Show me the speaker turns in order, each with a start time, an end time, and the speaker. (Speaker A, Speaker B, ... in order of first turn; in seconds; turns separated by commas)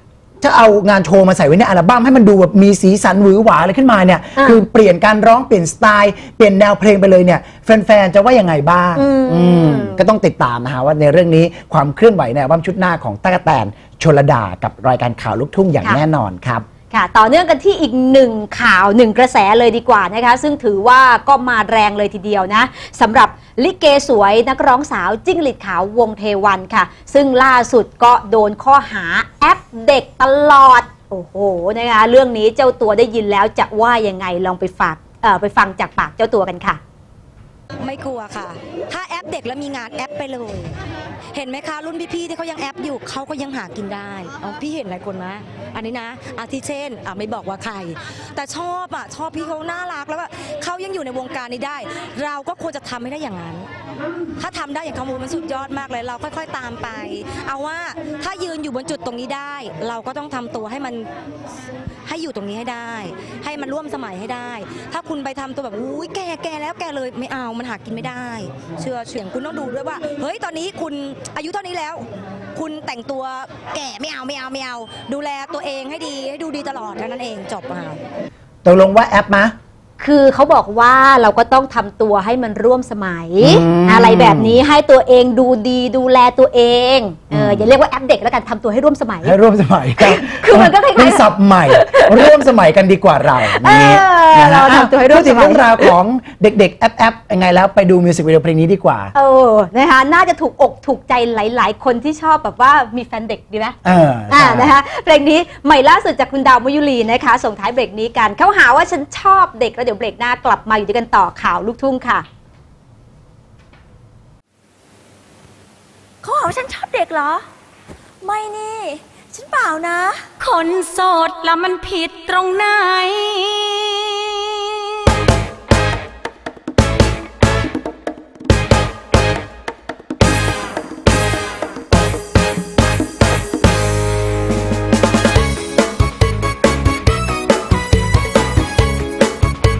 Speaker A: 0.4-16.6, Speaker B: 4.4-4.6, Speaker B: 8.9-10.0, Speaker B: 16.9-36.8, Speaker C: 37.8-40.8, Speaker C: 41.3-53.7, Speaker C: 54.4-61.1, Speaker C: 62.0-78.0, Speaker A: 78.6-79.5, Speaker B: 80.0-89.3, Speaker A: 83.4-84.6, Speaker A: 87.3-87.7, Speaker A: 89.2-99.1, Speaker B: 90.0-92.2, Speaker B: 93.5-95.9, Speaker B: 99.1-103.8, Speaker A: 103.8-104.8, Speaker B: 104.3-112.2, Speaker D: 116.2-117.4, Speaker D: 118.2-120.2, Speaker E: 120.4-124.3